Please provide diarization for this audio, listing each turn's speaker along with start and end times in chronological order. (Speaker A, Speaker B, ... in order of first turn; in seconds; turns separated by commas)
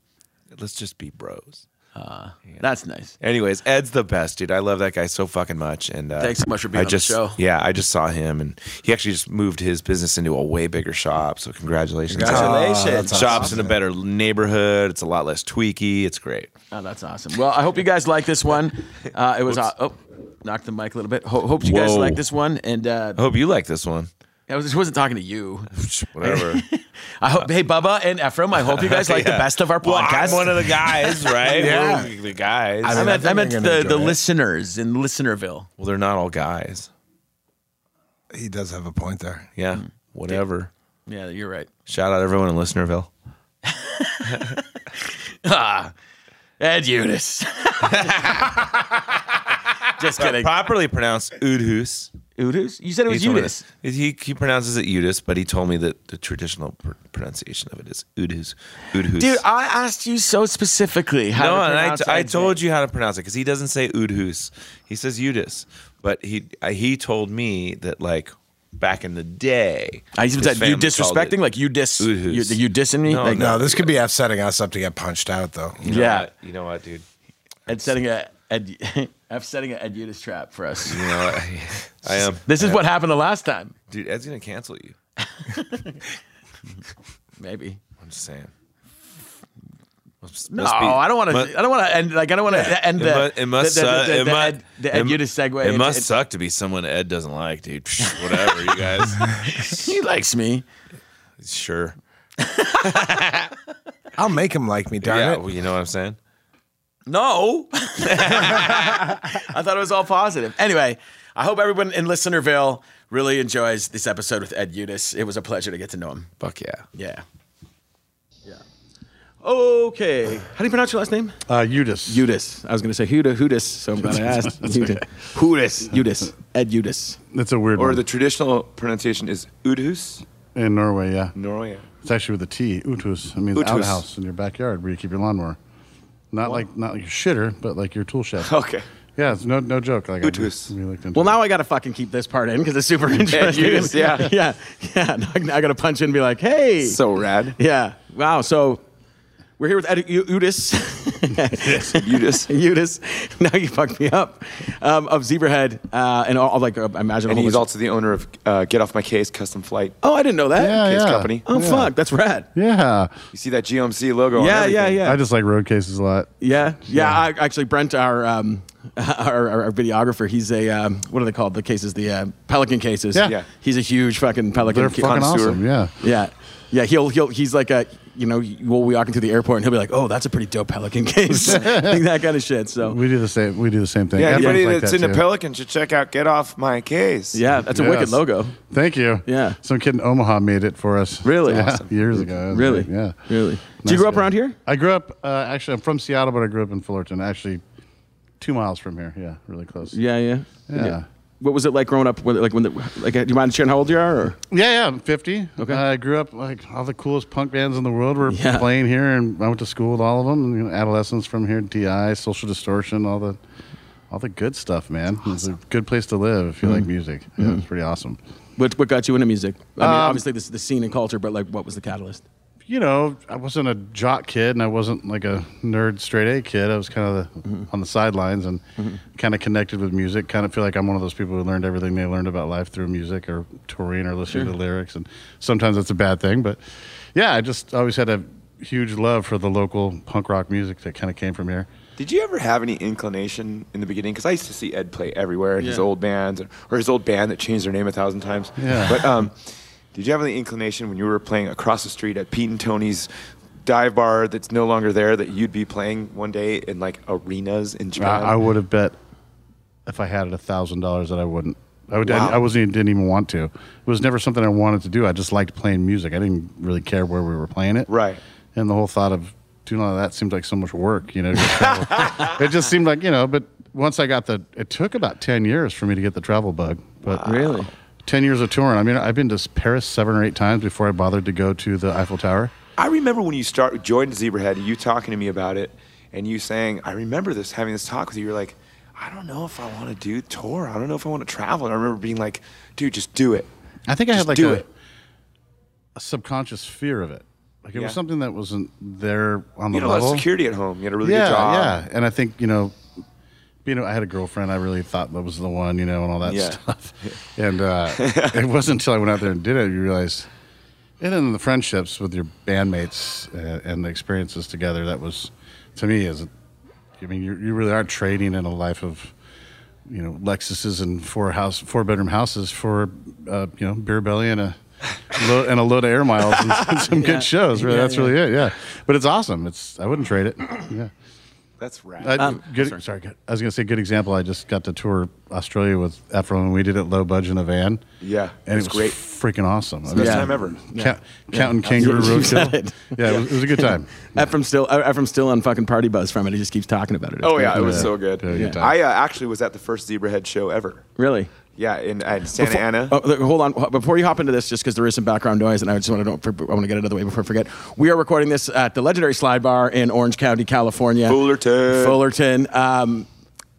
Speaker A: 0.6-1.6, Speaker B: 1.9-3.1, Speaker A: 3.2-16.5, Speaker B: 6.2-7.4, Speaker C: 12.1-13.8, Speaker B: 12.2-13.5, Speaker B: 16.7-23.2, Speaker A: 21.6-22.2, Speaker A: 23.1-24.1, Speaker B: 24.5-25.7, Speaker A: 25.7-26.6, Speaker B: 26.2-31.6, Speaker A: 28.6-33.2, Speaker C: 31.4-32.1, Speaker C: 32.8-34.2, Speaker B: 32.9-35.7, Speaker A: 35.8-36.9, Speaker C: 38.3-39.5, Speaker A: 39.5-40.7, Speaker B: 39.8-40.4, Speaker B: 41.1-41.7, Speaker A: 41.9-43.1, Speaker B: 43.6-45.9, Speaker B: 46.6-48.6, Speaker A: 47.8-48.8, Speaker B: 50.0-50.5, Speaker A: 50.2-52.1, Speaker B: 52.4-53.6, Speaker A: 53.1-59.4, Speaker B: 59.1-62.6, Speaker A: 61.3-71.4, Speaker B: 70.2-73.5, Speaker A: 72.0-73.9, Speaker C: 73.3-75.8, Speaker A: 75.8-77.0, Speaker B: 75.9-76.3, Speaker A: 77.7-77.9, Speaker B: 77.7-81.1, Speaker A: 80.8-82.8, Speaker B: 82.1-83.7, Speaker A: 83.9-85.0, Speaker B: 85.2-86.0, Speaker B: 87.4-87.8, Speaker A: 88.0-88.5, Speaker A: 90.2-91.5, Speaker B: 90.5-96.1, Speaker A: 92.5-99.8, Speaker B: 98.0-100.6, Speaker A: 101.4-102.0, Speaker B: 102.4-103.2, Speaker A: 102.8-103.5, Speaker C: 104.2-105.4, Speaker A: 105.0-106.2, Speaker B: 107.1-116.3, Speaker A: 108.0-109.2, Speaker A: 116.4-116.8, Speaker B: 117.0-117.2, Speaker B: 119.4-121.4, Speaker D: 121.5-122.3, Speaker B: 122.1-127.2, Speaker D: 124.0-125.0, Speaker D: 127.3-128.0, Speaker E: 127.8-130.2, Speaker D: 130.5-131.3, Speaker E: 131.3-131.9, Speaker D: 132.0-135.6, Speaker E: 133.6-134.0, Speaker D: 136.3-138.5, Speaker E: 138.4-138.8, Speaker D: 139.2-141.4, Speaker E: 140.2-140.7, Speaker B: 141.1-147.0, Speaker E: 143.3-144.3, Speaker E: 146.8-147.6, Speaker B: 147.6-148.8, Speaker B: 149.6-157.6, Speaker E: 151.9-152.5, Speaker E: 157.3-159.9, Speaker B: 160.0-162.5, Speaker D: 160.6-161.9, Speaker E: 160.8-161.5, Speaker D: 162.5-163.2, Speaker E: 163.3-165.0, Speaker B: 164.4-165.2, Speaker D: 165.0-167.2, Speaker B: 166.4-175.3, Speaker E: 173.2-173.5, Speaker D: 174.6-175.9, Speaker E: 175.0-175.6, Speaker B: 176.0-183.0, Speaker D: 181.3-182.0, Speaker D: 182.8-185.2, Speaker E: 184.2-187.4, Speaker B: 184.2-184.6, Speaker B: 187.3-188.6, Speaker D: 187.6-193.2, Speaker B: 189.2-189.6, Speaker B: 191.2-194.6, Speaker E: 191.5-191.9, Speaker D: 193.8-197.6, Speaker D: 198.4-200.0, Speaker B: 199.9-204.4, Speaker D: 200.7-201.0, Speaker D: 204.5-213.4, Speaker B: 208.3-208.7, Speaker D: 214.1-218.2, Speaker B: 218.6-222.2, Speaker D: 219.8-220.2, Speaker D: 222.7-228.6, Speaker D: 229.1-241.7, Speaker E: 242.0-249.3, Speaker B: 245.6-245.8, Speaker D: 248.6-249.1, Speaker E: 249.9-253.1, Speaker E: 253.6-258.4, Speaker D: 258.0-258.9, Speaker D: 259.9-267.9, Speaker E: 262.0-262.4, Speaker E: 267.9-268.2, Speaker D: 268.5-277.3, Speaker E: 277.1-277.7, Speaker B: 277.2-277.7, Speaker D: 278.0-282.5, Speaker E: 282.8-293.5, Speaker D: 293.9-294.7, Speaker E: 294.1-294.6, Speaker D: 295.9-300.3, Speaker E: 299.7-301.8, Speaker D: 301.0-302.8, Speaker D: 303.6-310.3, Speaker E: 306.2-307.2, Speaker E: 307.9-308.4, Speaker D: 311.0-316.3, Speaker D: 317.0-319.1, Speaker D: 319.9-324.6, Speaker D: 325.1-330.9, Speaker B: 326.6-328.2, Speaker E: 331.6-332.3, Speaker D: 332.0-337.8, Speaker B: 332.1-332.6, Speaker E: 338.0-339.0, Speaker D: 338.4-344.1, Speaker E: 339.9-340.6, Speaker B: 339.9-348.6, Speaker E: 347.2-350.8, Speaker D: 347.5-348.8, Speaker B: 351.0-351.3, Speaker E: 351.5-353.0, Speaker B: 352.4-363.1, Speaker E: 361.0-362.0